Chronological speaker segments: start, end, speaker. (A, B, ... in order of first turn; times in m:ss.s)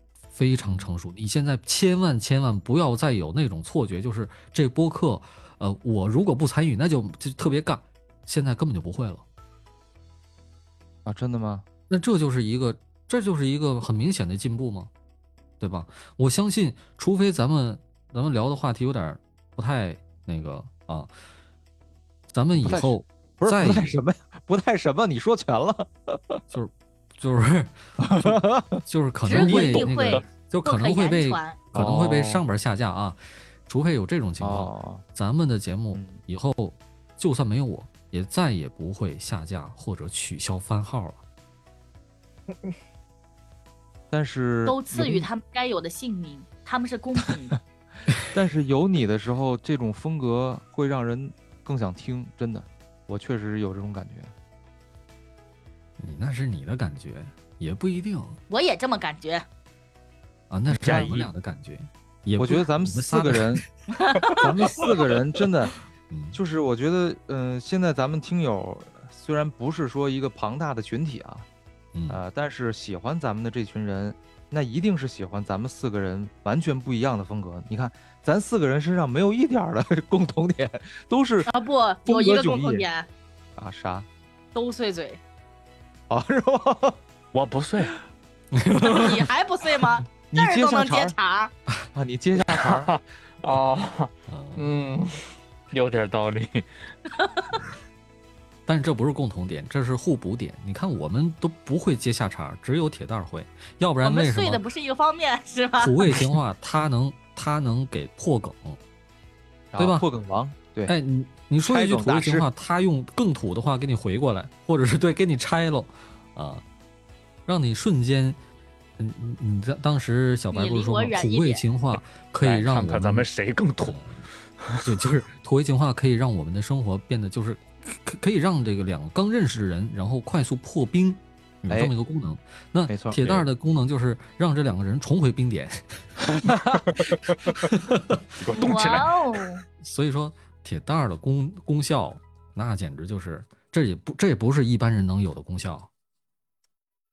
0:00.3-0:09.2 A
0:00.6-0:00.9 B
0:11.0-0:11.6 B
0:11.9-0:14.9 A
0:15.6-0:21.1 A
0:22.3-0:24.0 A
0:22.6-0:26.4 B
0:26.5-0:41.2 A
0:28.0-0:28.8 B
0:29.2-0:31.6 C
0:29.3-0:30.2 D
0:31.7-0:32.4 B
0:34.4-0:35.0 B
0:35.9-0:36.2 B
0:44.1-0:45.3 B
0:44.6-0:47.6 C
0:48.3-0:54.3 B
0:56.0-0:58.4 A
0:58.5-0:59.5 C
1:00.5-1:03.7 A
1:00.7-1:01.3 D
1:00.8-1:01.2 B
1:02.4-1:03.6 B
1:03.9-1:04.5 C
1:04.4-1:05.7 B
1:06.1-1:06.4 A
1:06.3-1:11.5 B
1:11.9-1:12.2 A
1:12.1-1:21.5 B
1:21.5-1:23.1 C
1:22.0-1:22.9 B
1:23.6-1:24.1 B
1:24.6-1:25.2 C
1:26.1-1:27.0 B
1:27.3-1:28.0 D
1:28.5-1:29.3 A
1:28.8-1:31.5 C
1:30.3-1:31.2 B
1:31.9-1:32.9 B
1:32.4-1:36.7 D
1:34.3-1:34.7 A
1:37.1-1:37.6 C
1:38.7-1:44.6 A
1:44.0-1:46.2 C
1:45.8-1:48.8 A
1:49.7-1:50.9 B
1:49.8-1:50.1 A
1:50.9-1:56.6 A
1:51.6-1:52.5 B
1:57.5-1:58.4 A
1:59.0-2:03.3 A
2:00.5-2:01.6 C
2:02.4-2:04.0 D
2:03.8-2:04.2 A
2:04.6-2:04.9 D
2:04.8-2:16.5 A
2:11.7-2:11.9 B
2:12.9-2:13.2 B
2:13.2-2:13.5 D
2:17.5-2:19.1 A
2:18.4-2:19.1 D
2:18.5-2:19.6 C
2:19.8-2:25.9 A